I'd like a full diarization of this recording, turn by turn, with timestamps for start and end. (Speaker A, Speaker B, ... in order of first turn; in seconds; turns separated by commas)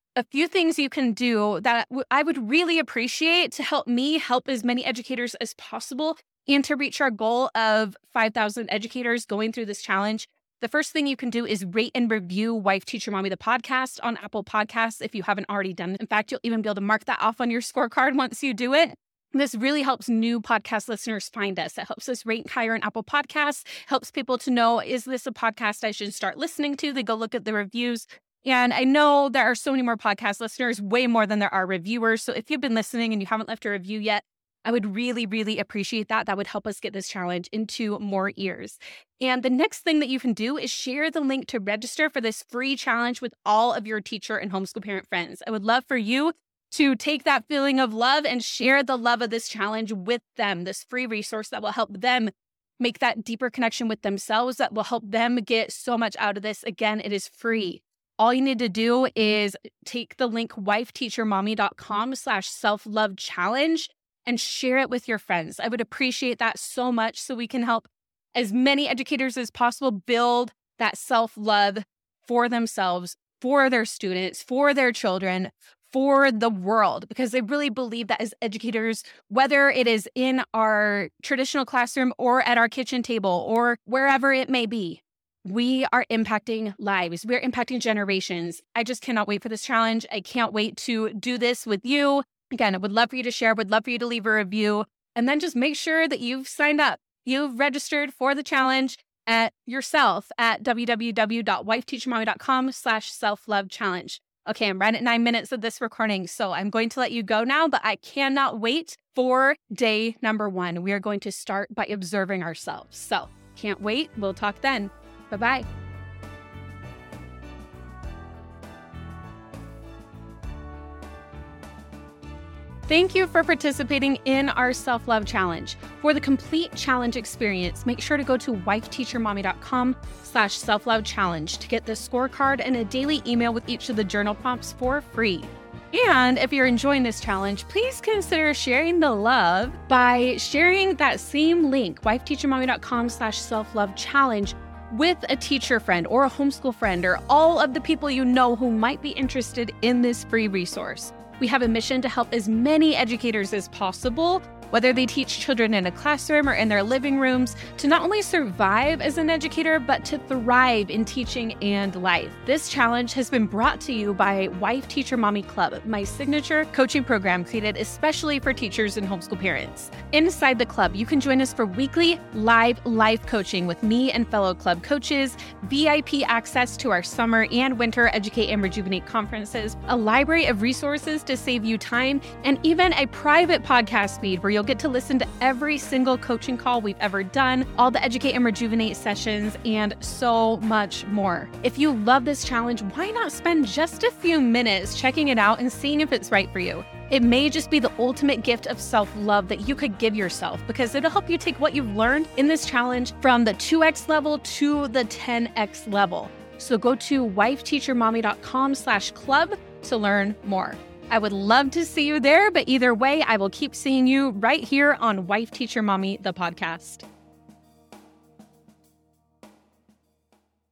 Speaker A: 0.1-115.7, Speaker A: 122.9-217.0